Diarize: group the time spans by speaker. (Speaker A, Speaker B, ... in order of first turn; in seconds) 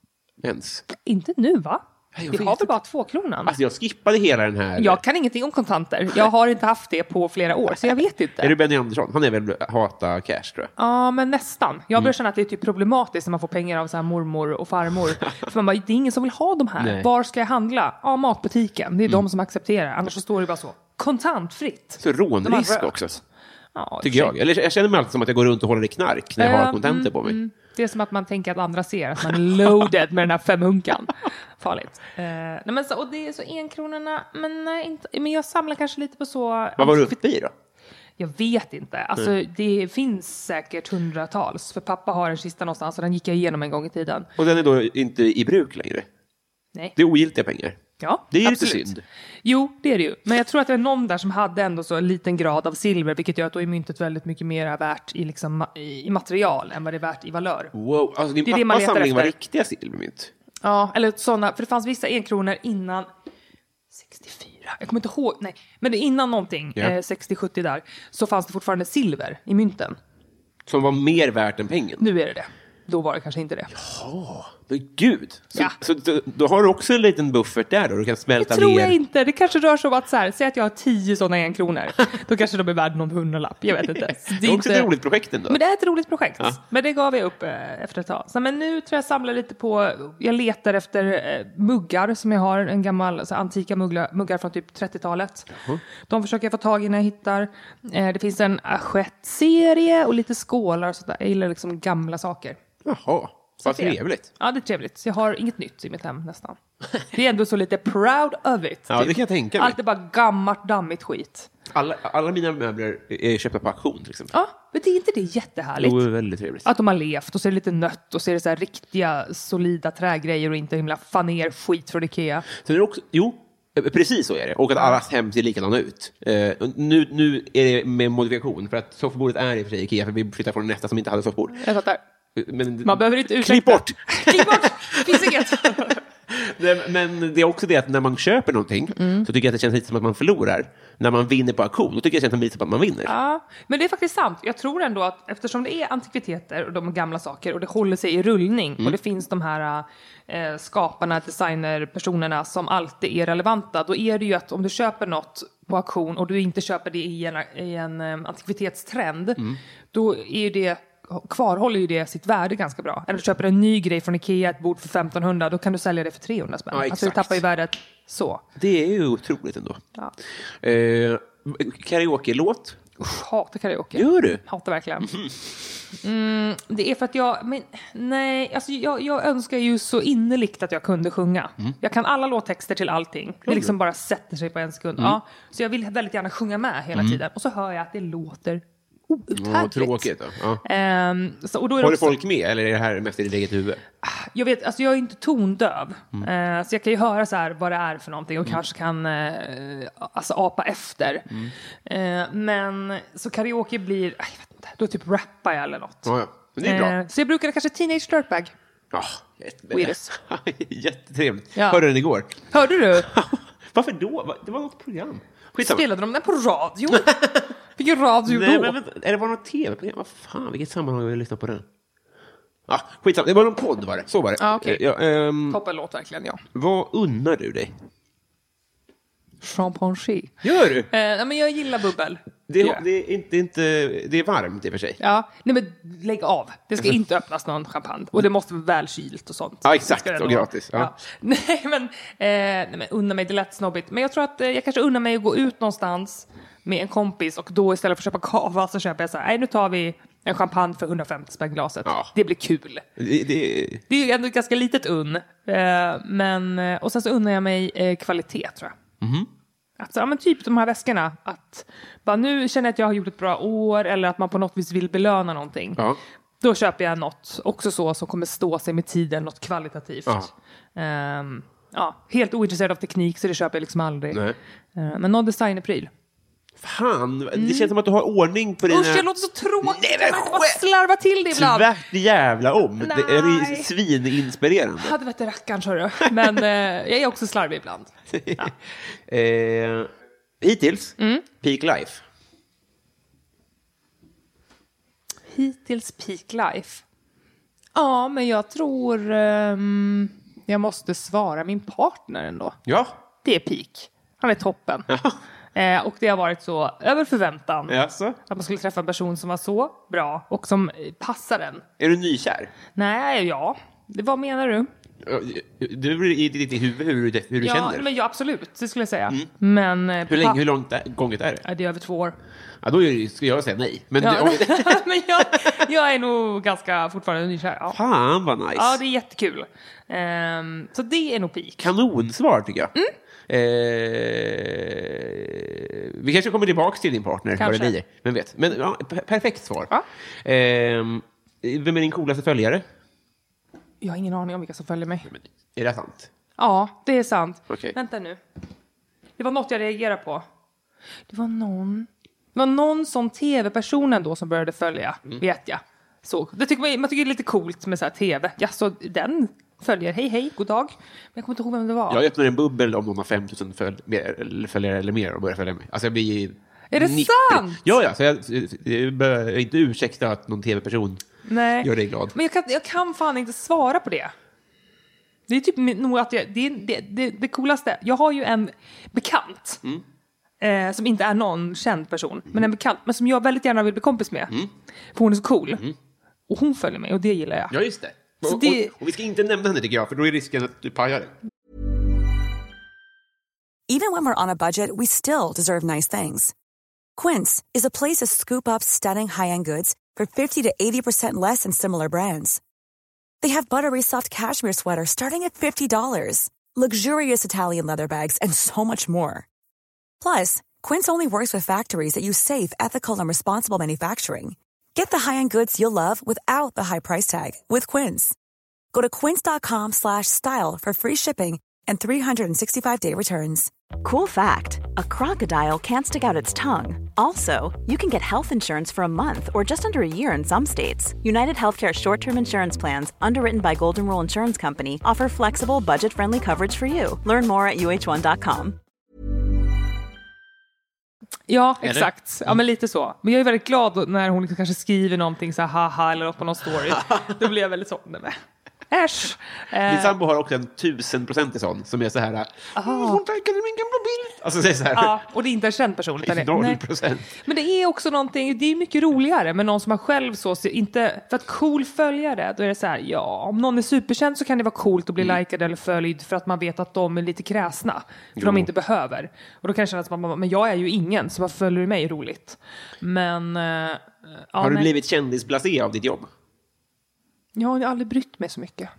Speaker A: 0.4-0.9, 2.1-2.7, 3.5-5.0, 8.4-10.7, 16.8-17.1, 22.0-23.2, 24.0-27.4, 36.8-37.5, 44.4-46.1, 47.0-47.8, 48.3-49.0, 57.7-60.3, 70.7-72.1, 73.7-79.0, 83.8-85.6, 95.5-95.8, 102.8-104.3, 108.9-109.8, 111.7-114.3, 115.8-116.7, 122.5-131.7, 132.4-143.2, 166.7-167.4, 168.6-169.8, 170.6-172.8, 173.9-174.4, 175.0-175.3, 183.5-183.7, 186.9-187.2, 189.3-190.6, 191.8-193.8, 206.1-207.0, 208.9-212.4, 212.9-215.8, 216.9-217.5, 218.2-221.7, 222.7-225.6, 226.5-227.7, 230.4-230.9, 232.5-235.0, 239.7-240.9, 251.9-252.1, 253.0-253.8, 259.0-259.3, 270.1-270.3, 274.1-274.4, 276.6-279.1, 279.6-280.6, 281.3-284.9, 286.0-286.4, 288.1-292.1, 302.7-302.9, 304.9-305.2, 307.7-308.2, 311.8-312.5, 315.0-317.9, 320.1-321.4, 322.6-325.5, 327.7-328.8, 331.6-332.7, 333.3-339.7, 340.2-342.7, 345.1-346.1, 347.5-347.8, 361.9-371.0, 371.6-372.1, 387.5-391.2, 441.6-442.4, 446.7-447.2, 449.6-455.0, 456.0-457.1, 468.2-468.5, 474.4-476.1
Speaker B: 0.9-3.5, 4.8-8.6, 10.8-23.2, 23.8-24.4, 26.4-37.2, 38.2-44.3, 48.0-57.8, 58.5-59.3, 60.6-63.1, 63.9-70.0, 72.0-73.7, 78.4-84.9, 85.5-95.5, 96.1-102.6, 103.6-111.5, 114.3-116.0, 116.6-122.5, 131.5-132.0, 132.8-136.0, 139.0-139.3, 143.1-168.4, 173.0-175.1, 176.0-190.1, 190.6-192.2, 194.0-201.3, 201.9-208.5, 209.7-210.2, 211.6-211.8, 212.4-213.1, 215.6-217.2, 217.8-218.8, 224.4-224.8, 225.5-226.4, 229.4-230.4, 230.9-232.8, 235.0-252.8, 253.9-258.8, 259.8-265.8, 266.4-274.2, 274.8-275.9, 277.3-277.7, 278.7-281.7, 282.8-283.7, 284.8-288.5, 291.0-291.2, 295.3-296.8, 297.7-302.6, 303.2-304.9, 305.6-307.8, 308.3-311.6, 312.8-314.7, 317.4-320.4, 321.4-322.2, 324.0-327.8, 328.6-331.7, 337.4-337.8, 343.8-345.1, 346.4-348.2, 349.2-350.2, 351.1-362.0, 366.7-367.6, 371.2-374.1, 375.3-379.6, 380.4-384.3, 384.9-385.6, 386.3-387.6, 388.2-388.7, 441.3-450.0, 452.6-453.0, 454.7-456.6, 457.1-474.7, 477.4-478.7
Speaker C: 393.7-396.3, 397.0-402.4, 403.2-409.3, 410.0-418.1, 418.7-423.5
Speaker D: 423.8-438.6